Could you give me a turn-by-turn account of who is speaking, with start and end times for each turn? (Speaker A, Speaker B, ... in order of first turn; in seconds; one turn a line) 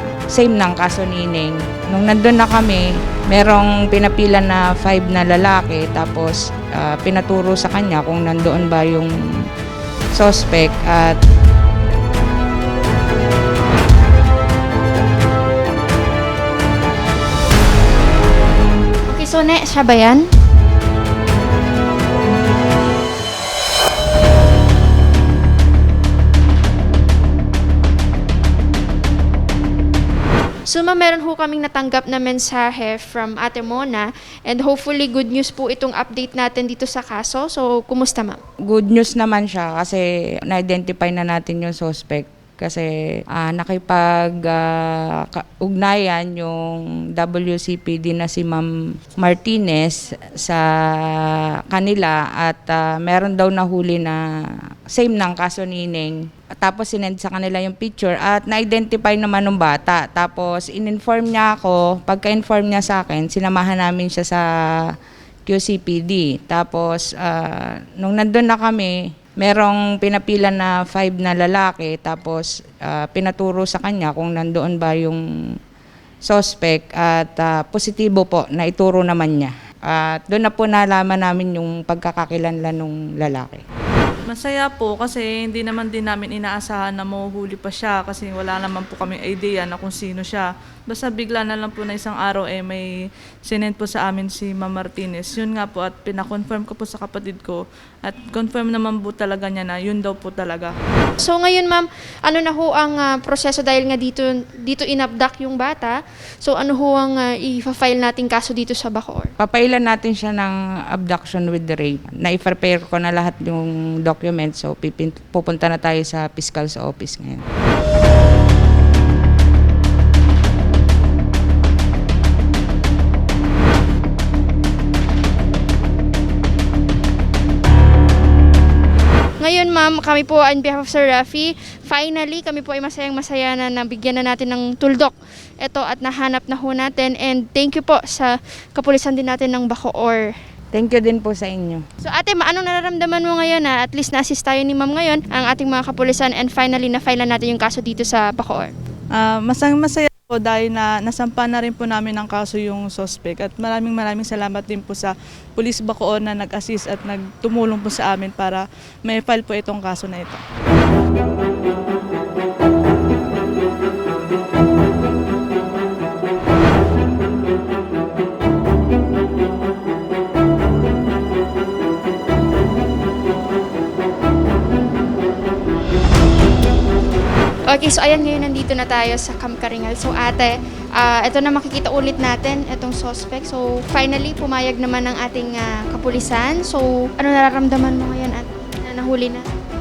Speaker A: 0.3-9.1
Speaker A: 10.1-11.2
Speaker B: 19.1-20.2
Speaker B: 30.7-38.4
Speaker A: 38.7-44.6
Speaker A: 45.3-48.7
Speaker A: 49.2-50.6
Speaker A: 51.7-54.2
Speaker A: 54.9-64.4
Speaker A: 65.5-75.2
Speaker A: 76.2-83.6
Speaker C: 84.3-92.9
Speaker C: 93.5-100.7
Speaker B: 101.2-109.3
Speaker A: 109.4-117.4
Speaker B: 129.4-140.3
Speaker A: 140.7-141.8
Speaker B: 142.0-148.7
Speaker C: 149.1-160.4
Speaker B: 177.7-189.4